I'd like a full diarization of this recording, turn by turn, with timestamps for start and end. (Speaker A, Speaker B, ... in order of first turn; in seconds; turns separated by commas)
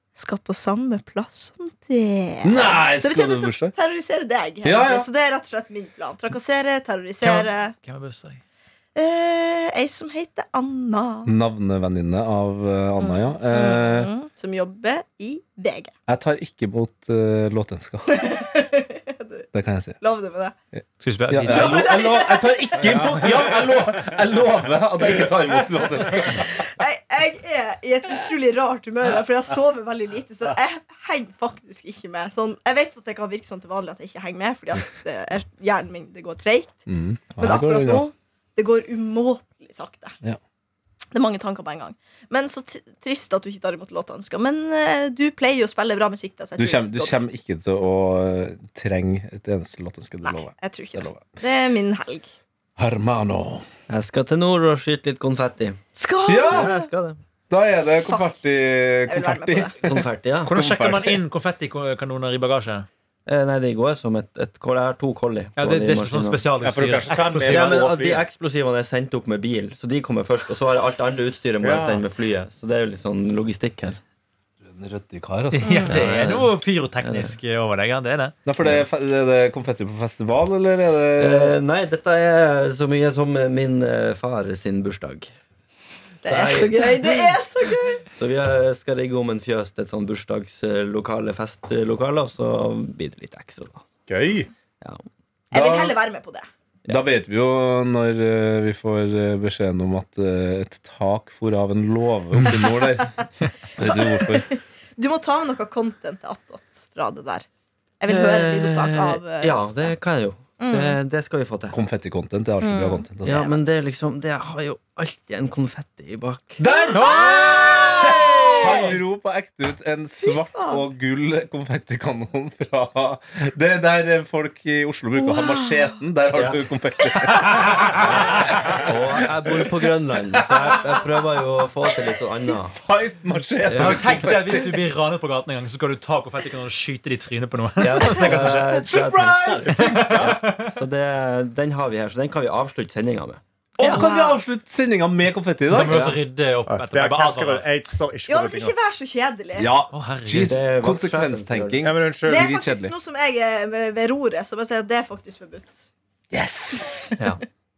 Speaker A: 0.1-7.7, Speaker B: 2.4-3.8, Speaker B: 4.6-5.1, Speaker C: 7.2-8.4, Speaker A: 8.9-11.3, Speaker B: 11.3-14.1, Speaker A: 13.0-15.9, Speaker B: 16.1-18.3, Speaker A: 18.1-19.5, Speaker B: 19.5-20.0, Speaker A: 20.0-20.6, Speaker B: 20.8-26.6, Speaker C: 21.0-21.9, Speaker A: 21.4-23.5, Speaker A: 26.3-36.9, Speaker B: 36.9-38.0, Speaker A: 37.4-40.1, Speaker A: 41.1-47.2, Speaker B: 46.6-51.4, Speaker A: 50.2-52.3, Speaker B: 52.8-53.7, Speaker D: 53.9-55.8, Speaker A: 56.0-56.9, Speaker B: 56.3-56.7, Speaker D: 56.5-57.2, Speaker B: 57.5-61.2, Speaker A: 59.1-59.8, Speaker D: 59.8-60.5, Speaker C: 60.5-62.9, Speaker D: 63.3-66.5, Speaker C: 65.6-67.8, Speaker E: 66.6-68.2, Speaker D: 67.4-74.0, Speaker E: 71.6-72.0, Speaker B: 74.6-75.9, Speaker C: 75.5-78.4, Speaker A: 75.7-75.9, Speaker D: 75.9-77.3, Speaker B: 78.5-81.6, Speaker D: 81.2-85.3, Speaker A: 86.2-88.1, Speaker D: 86.3-87.3, Speaker D: 88.2-93.8, Speaker E: 94.1-94.5, Speaker A: 95.5-96.5, Speaker B: 95.5-96.0, Speaker B: 96.9-103.2, Speaker B: 103.8-104.5, Speaker A: 103.8-107.5, Speaker A: 108.0-109.7, Speaker D: 108.1-111.8, Speaker A: 110.6-111.0, Speaker B: 111.7-113.5, Speaker A: 112.6-113.6, Speaker D: 113.2-116.6, Speaker B: 116.6-131.0, Speaker A: 116.7-118.9, Speaker C: 116.9-118.9, Speaker A: 120.2-120.8, Speaker A: 125.2-125.8, Speaker D: 126.3-126.6, Speaker D: 128.8-132.8, Speaker B: 132.7-134.7, Speaker D: 133.7-134.3, Speaker C: 133.7-138.8, Speaker D: 137.8-143.4, Speaker B: 138.3-139.8, Speaker E: 139.4-140.4, Speaker C: 139.7-140.7, Speaker B: 143.8-146.2, Speaker C: 143.8-144.1, Speaker A: 143.8-144.4, Speaker C: 145.7-147.7, Speaker E: 146.7-148.7, Speaker A: 148.3-149.7, Speaker B: 149.6-152.9, Speaker C: 149.9-150.6, Speaker D: 150.3-151.9, Speaker E: 151.8-152.5, Speaker A: 152.3-155.8, Speaker B: 156.3-157.2